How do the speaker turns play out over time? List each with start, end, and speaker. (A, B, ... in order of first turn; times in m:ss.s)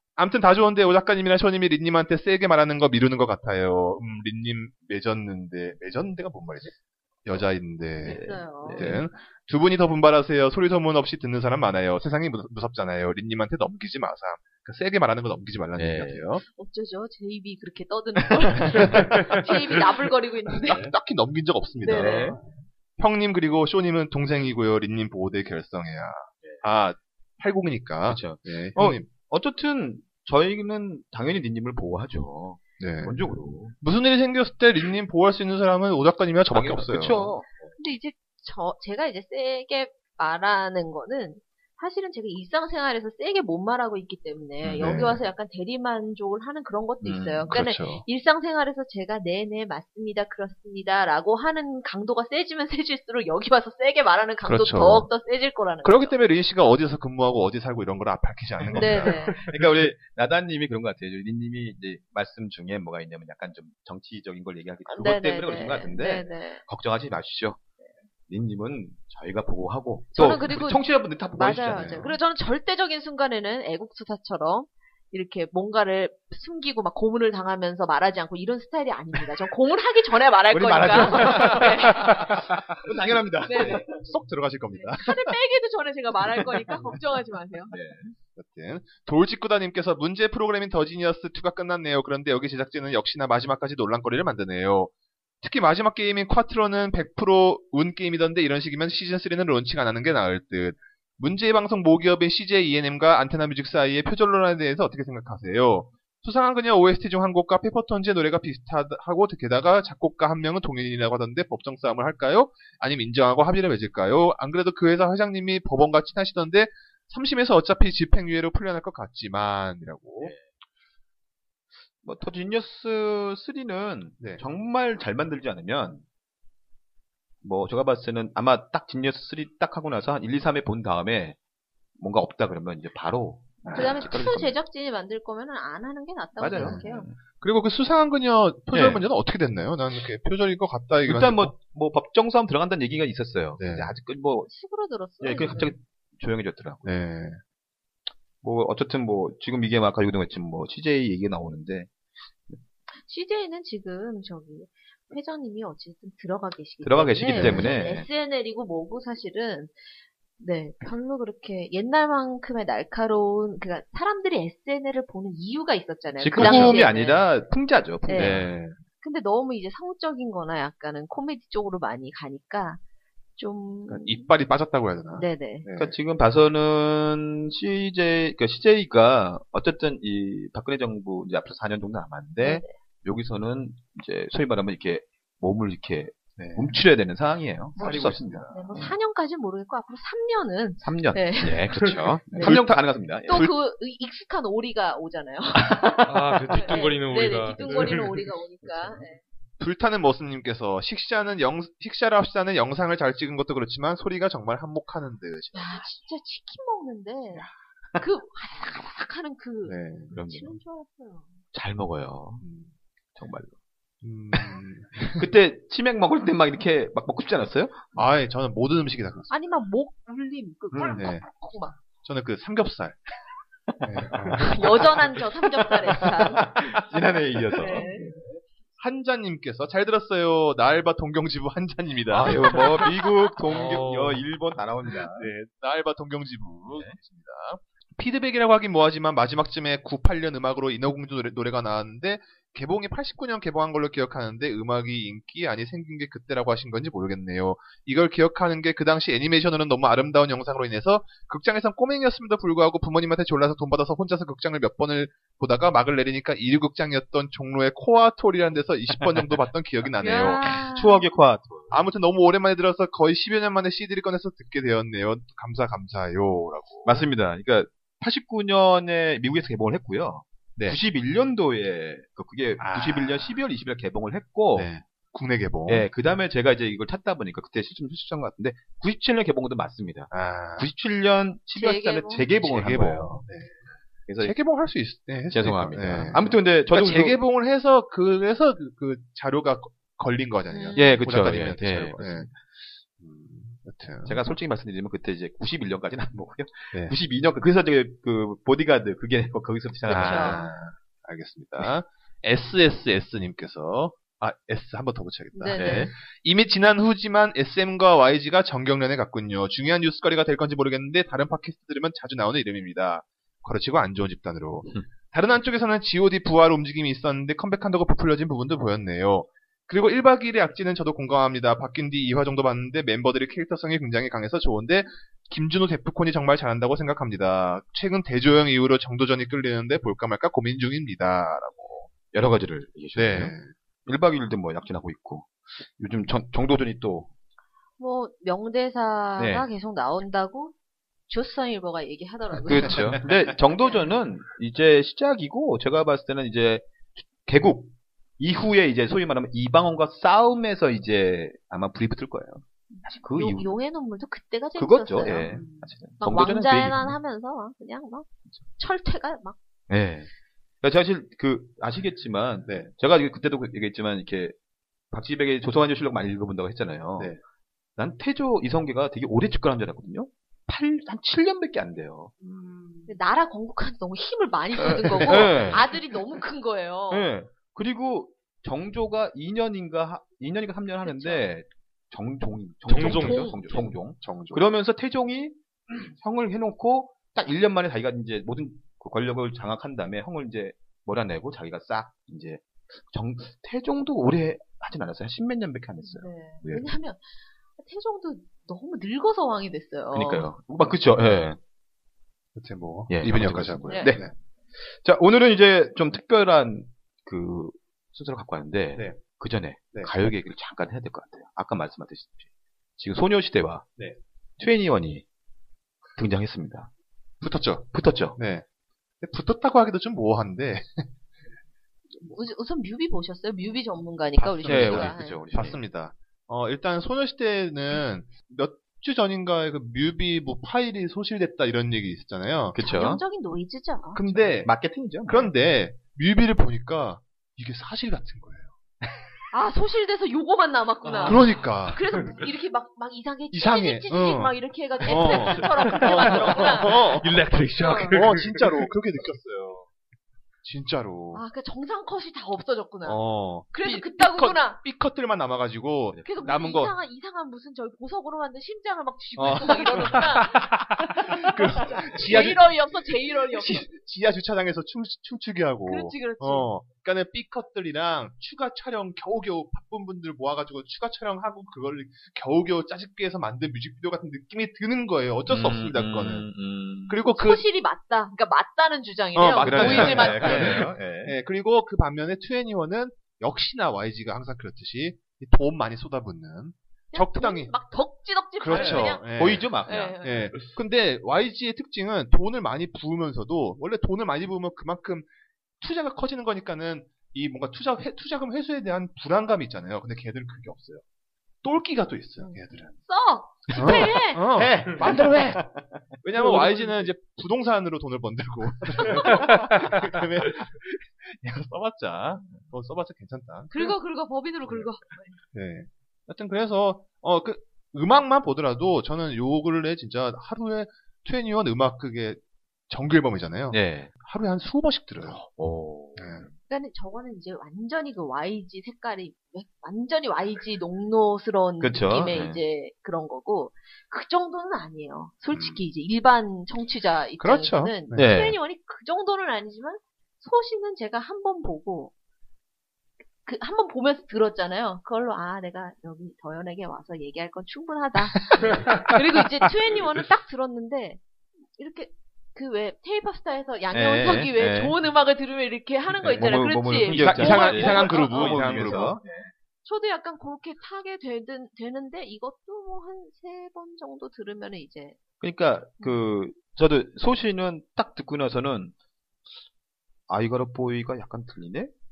0:00.2-0:16.4 A
0:08.0-0:09.1 B
0:08.0-0:08.9 C
0:15.8-0:16.2 B
0:16.5-0:20.8 C
0:18.8-0:19.4 A
0:20.6-0:29.1 A
0:21.8-0:22.2 C
0:21.9-0:22.4 B
0:28.1-0:33.8 B
0:32.8-0:37.4 A
0:36.5-0:37.7 B
0:37.8-0:56.2 C
0:44.6-0:45.2 A
0:47.0-0:47.5 B
0:47.5-0:48.0 A
0:54.4-0:55.1 A
0:55.8-0:59.8 A
0:58.7-1:07.6 B
0:58.7-0:59.4 C
1:04.9-1:06.6 C
1:08.3-1:12.1 B
1:10.1-1:22.1 C
1:11.7-1:12.2 A
1:20.5-1:24.0 B
1:21.6-1:22.1 A
1:23.4-1:23.8 C
1:23.9-1:25.4 A
1:24.7-1:27.7 C
1:27.7-1:28.2 B
1:28.4-1:34.9 A
1:35.4-2:00.4 A
2:02.0-2:06.0 B
2:04.2-2:04.4 A
2:07.4-2:11.4 B
2:12.0-2:14.5 B
2:13.6-2:14.2 A
2:13.7-2:17.1 C
2:16.4-2:17.2 B
2:16.6-2:16.8 A
2:17.4-2:21.6 A
2:18.7-2:19.0 B
2:21.1-2:24.5 B
2:23.6-2:23.9 A
2:24.5-2:25.7 C
2:25.2-2:26.9 B
2:26.8-2:27.4 A
2:28.4-2:31.9 B
2:33.0-2:39.8 C
2:36.8-2:38.1 B
2:37.3-2:37.7 A
2:40.4-2:47.3 C
2:46.2-2:48.6 B
2:46.4-2:46.8 A
2:48.0-2:48.4 C
2:48.2-2:48.8 A
2:49.0-2:52.8 C
2:53.4-2:54.3 C
2:53.9-2:56.0 A
2:55.1-2:55.7 C
2:55.8-3:09.0 B
3:02.4-3:02.8 C
3:06.4-3:06.8 A
3:07.8-3:08.8 A
3:08.5-3:11.7 C
3:10.8-3:13.5 B
3:12.3-3:12.6 C
3:12.4-3:13.5 A
3:13.2-3:19.2 C
3:16.1-3:18.3 D
3:17.6-3:18.0 A
3:19.6-3:25.9 A
3:25.6-3:27.5 C
3:27.4-3:28.0 B
3:28.0-3:31.4 C
3:29.7-3:30.1 A
3:30.1-3:30.6 B
3:31.5-3:32.4 B
3:32.4-3:32.7 A
3:33.2-3:33.5 B
3:34.0-3:35.3 A
3:35.2-3:38.0 B
3:38.0-3:39.3 A
3:39.3-3:41.8 C
3:40.8-3:41.3 A
3:41.8-3:43.0 A
3:43.8-3:44.9 A
3:44.0-3:48.4 B
3:44.4-3:46.5 C
3:47.6-3:48.1 C
3:47.7-3:48.0 A
3:48.8-3:52.8 A
3:52.1-3:55.3 B
3:53.5-3:54.2 D
3:55.1-4:20.6 A
4:20.0-4:21.0 C
4:20.2-4:21.8 B
4:21.7-4:27.0 A
4:26.8-4:34.7 B
4:32.6-4:33.4 A
4:34.5-4:35.9 A
4:35.7-4:43.2 B
4:40.1-4:40.7 A
4:41.5-4:42.3 C
4:42.4-4:43.6 A
4:44.1-4:44.3 B
4:44.2-4:52.4 A
4:45.3-4:47.2 B
4:50.5-4:51.0 C
4:50.8-4:52.4 B
4:53.0-4:54.2 A
4:54.1-5:00.5 B
4:59.9-5:00.5 C
4:59.9-5:31.9 A
5:05.4-5:05.9 C
5:05.6-5:05.9 B
5:32.1-5:33.4 B
5:33.0-5:33.5 A
5:33.9-5:37.1 B
5:37.8-5:40.5 C
5:39.2-5:39.5 B
5:41.1-5:43.0 C
5:42.4-5:53.5 B
5:42.7-5:43.0 A
5:52.7-5:55.3 C
5:54.6-5:57.0 B
5:55.2-5:55.7 A
5:56.0-5:59.4 C
5:59.7-6:00.1 B
6:00.6-6:04.4 B
6:04.9-6:07.2 B
6:07.8-6:12.1 B
6:12.2-6:13.0 A
6:12.9-6:17.1 C
6:14.6-6:15.7 B
6:15.0-6:15.7 A
6:16.9-6:36.7 B
6:20.8-6:21.3 C
6:22.7-6:23.4 D
6:22.8-6:23.7 C
6:23.6-6:24.5 A
6:35.9-6:40.3 C
6:39.9-6:41.4 B
6:42.4-6:44.1 A
6:42.9-6:44.1 B
6:43.7-6:44.0 C
6:44.6-6:53.7 B
6:48.8-6:49.0 A
6:54.4-6:55.0 B
6:56.0-6:56.7 B
6:57.2-6:58.4 A
6:57.7-6:58.2 B
6:59.0-7:00.9 A
7:02.0-7:05.5 C
7:04.2-7:12.6 A
7:04.4-7:05.6 B
7:12.5-7:13.0 B
7:12.6-7:14.0 C
7:13.9-7:14.5 A
7:14.1-7:15.3 B
7:15.0-7:18.6 A
7:19.3-7:27.0 C
7:20.8-7:21.2 B
7:21.0-7:21.8 A
7:23.3-7:27.1 A
7:26.9-7:28.7 D
7:27.6-7:28.0 C
7:27.9-7:29.7 A
7:30.4-7:31.2 A
7:31.1-7:34.6 C
7:32.8-7:36.8 A
7:36.0-7:40.5 C
7:39.2-7:40.0 B
7:39.2-7:56.3 A
7:41.0-7:43.7 C
7:45.7-7:46.5 C
7:55.3-7:57.0 B
7:56.9-7:57.4 A
7:57.1-8:00.7 C
7:59.2-8:07.6 A
7:59.4-8:01.2 B
8:06.9-8:10.4 C
8:08.4-8:15.1 A
8:08.5-8:10.0 B
8:15.6-8:20.8 A
8:21.4-8:22.8 A
8:22.2-8:24.3 C
8:23.5-8:25.5 A
8:23.5-8:26.9 B
8:26.0-8:33.7 A
8:33.5-8:35.2 C
8:35.3-8:45.2 A
8:43.5-8:43.9 B
8:45.0-8:46.3 B
8:46.0-8:46.3 A
8:46.5-9:01.9 C
8:51.6-8:52.4 B
8:55.3-8:55.6 A
8:57.2-8:58.1 A
8:57.9-8:58.4 B
9:03.2-9:11.0 C
9:11.6-9:18.6 C
9:13.7-9:14.8 B
9:16.0-9:19.3 B
9:16.9-9:19.0 A
9:19.6-9:25.0 C
9:25.2-9:28.8 B
9:30.1-9:31.7 B